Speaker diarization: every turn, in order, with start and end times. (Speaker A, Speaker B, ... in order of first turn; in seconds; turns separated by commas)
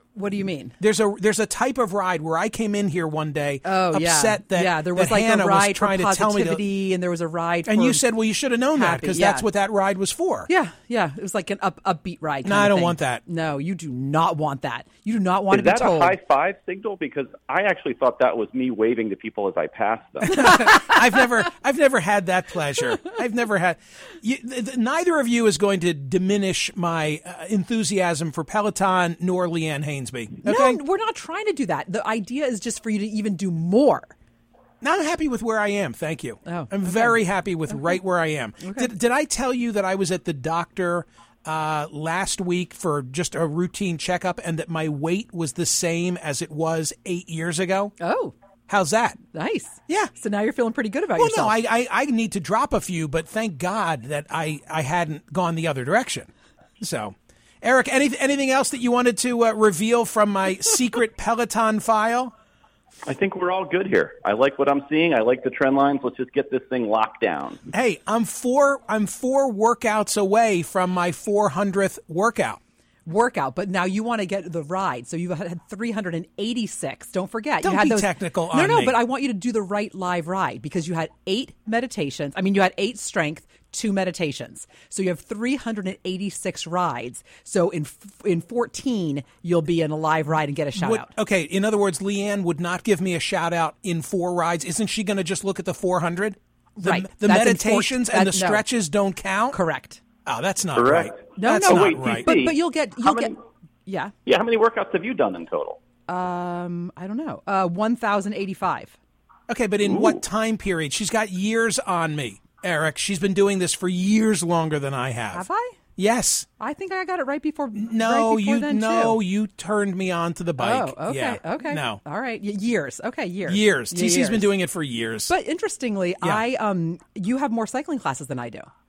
Speaker A: 0.1-0.8, Speaker B: 0.8-6.6, Speaker A: 3.6-9.5, Speaker B: 7.7-10.5, Speaker A: 10.5-16.1, Speaker B: 12.4-13.2, Speaker C: 15.5-20.4, Speaker B: 20.2-30.8, Speaker A: 20.5-20.9, Speaker A: 30.4-34.1, Speaker B: 34.8-47.9, Speaker A: 36.4-38.0, Speaker A: 38.6-38.9, Speaker A: 48.0-48.3, Speaker B: 48.7-49.2, Speaker A: 49.3-51.6, Speaker B: 51.2-62.3, Speaker C: 63.1-67.6, Speaker B: 67.7-72.6, Speaker A: 73.0-91.1, Speaker B: 77.6-79.0, Speaker B: 90.8-99.6, Speaker A: 96.8-98.7, Speaker A: 99.5-100.0, Speaker B: 100.2-102.3, Speaker C: 100.7-103.4, Speaker A: 101.4-103.3, Speaker A: 103.8-104.1, Speaker C: 104.2-105.8, Speaker A: 106.1-109.0, Speaker B: 109.5-115.4, Speaker C: 109.8-110.2, Speaker A: 115.3-115.8, Speaker B: 116.0-116.5, Speaker A: 116.6-119.2, Speaker B: 117.8-122.0, Speaker A: 120.6-124.5, Speaker B: 123.5-125.3, Speaker A: 125.3-128.7